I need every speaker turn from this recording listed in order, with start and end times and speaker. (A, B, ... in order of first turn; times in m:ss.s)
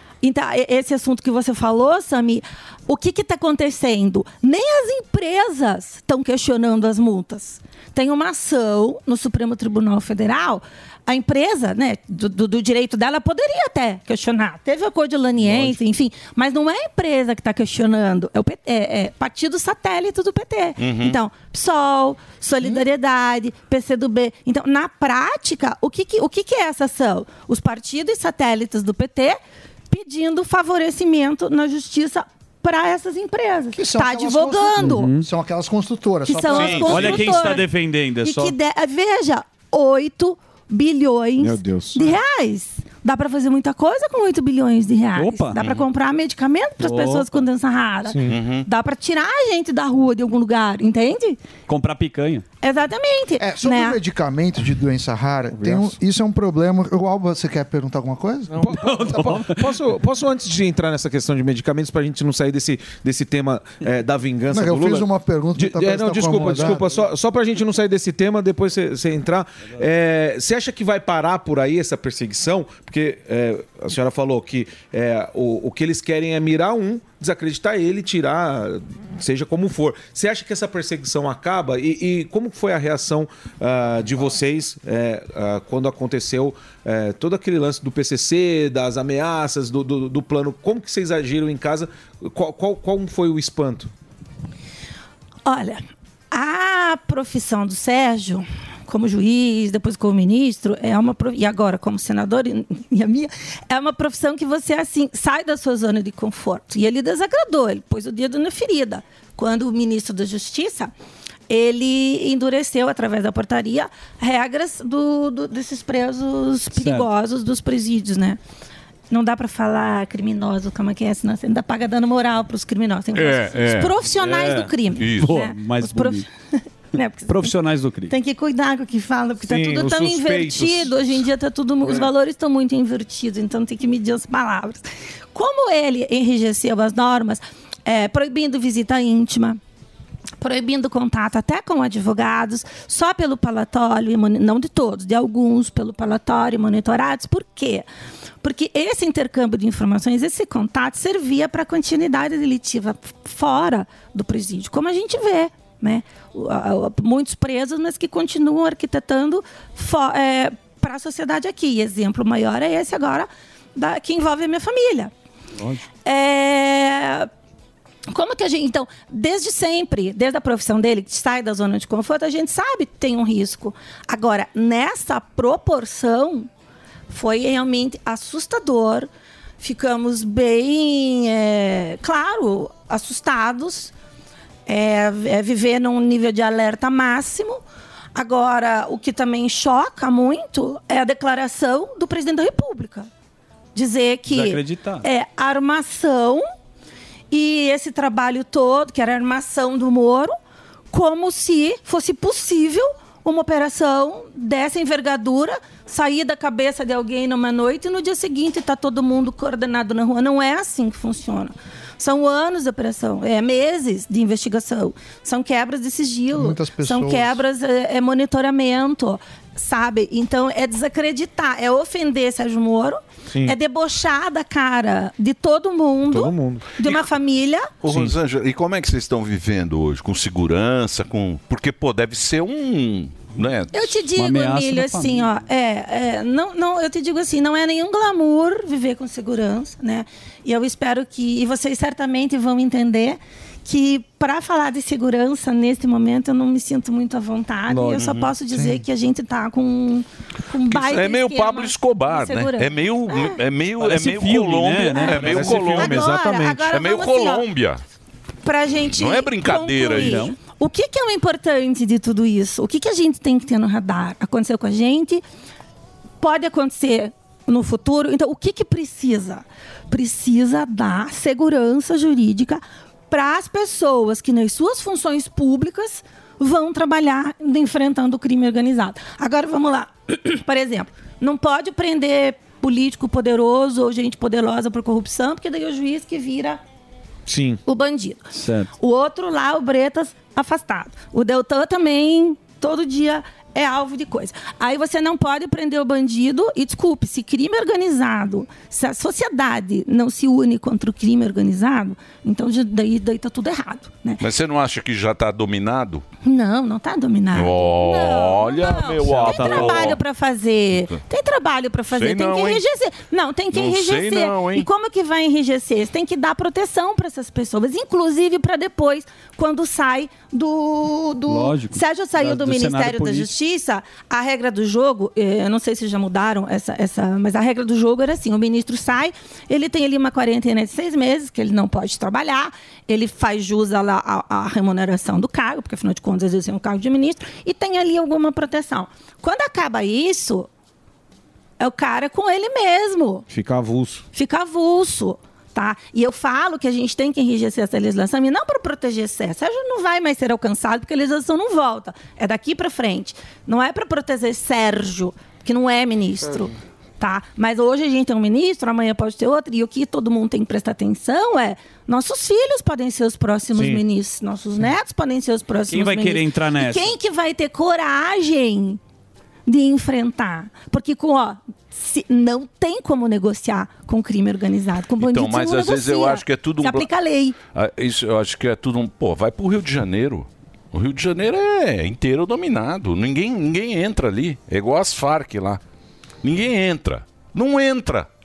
0:00.2-0:29.4 A
0:15.4-0:15.8 B
0:20.8-0:21.2 C
0:29.9-0:35.2 A
0:33.7-0:37.6 D
0:34.8-0:35.3 B
0:36.3-0:51.4 A
0:36.5-0:37.0 C
0:36.8-0:38.6 B
0:41.4-0:42.1 E
0:45.2-0:45.6 B
0:45.6-0:45.8 C
0:46.8-0:47.5 B
0:48.1-0:48.4 E
0:48.3-0:48.7 C
0:51.7-0:52.4 B
0:52.6-0:54.0 A
0:53.4-0:58.7 D
0:58.6-1:33.9 E
0:58.6-0:59.7 B
1:04.5-1:06.9 D
1:35.5-1:50.9 A
1:51.5-1:58.4 A
1:56.8-1:57.1 B
1:59.1-2:07.6 A
2:03.1-2:03.9 C
2:03.7-2:06.3 B
2:05.0-2:05.4 C
2:07.3-2:08.1 B
2:08.1-2:19.6 A
2:09.4-2:11.2 E
2:20.4-2:27.9 A
2:28.4-2:45.1 A
2:45.6-2:45.8 B
2:46.0-2:47.3 A
2:48.1-2:56.5 A
2:57.1-2:59.1 A
2:59.6-3:03.9 A
3:04.7-3:07.6 A
3:08.2-3:13.1 A
3:13.8-3:16.4 A
3:14.3-3:15.1 B
3:17.3-3:20.3 A
3:20.9-3:47.7 A
3:36.3-3:37.4 D
3:46.1-3:46.8 E
3:47.8-3:53.9 C
3:53.7-4:13.4 A
3:54.2-3:55.3 B
4:07.7-4:08.0 B
4:08.0-4:08.3 C
4:10.7-4:16.1 C
4:13.8-4:16.6 B
4:14.9-4:17.5 A
4:15.5-4:16.3 E
4:16.7-4:17.8 C
4:18.4-4:25.2 A
4:18.9-4:20.2 C
4:19.9-4:20.4 B
4:26.2-4:46.6 A
4:47.3-4:47.6 E
4:47.7-4:48.3 A
4:48.3-4:48.7 B
4:48.8-5:04.2 A
5:04.2-5:06.0 C
5:06.2-5:40.5 A
5:07.3-5:10.0 C
5:09.0-5:10.0 B
5:11.9-5:12.6 C
5:13.5-5:14.7 C
5:21.3-5:23.3 B
5:41.6-5:43.3 A
5:43.3-5:44.0 E
5:44.1-6:08.8 A
6:05.7-6:06.9 B
6:09.5-6:17.4 A
6:15.0-6:16.9 C
6:17.5-6:25.6 C
6:26.2-6:28.1 C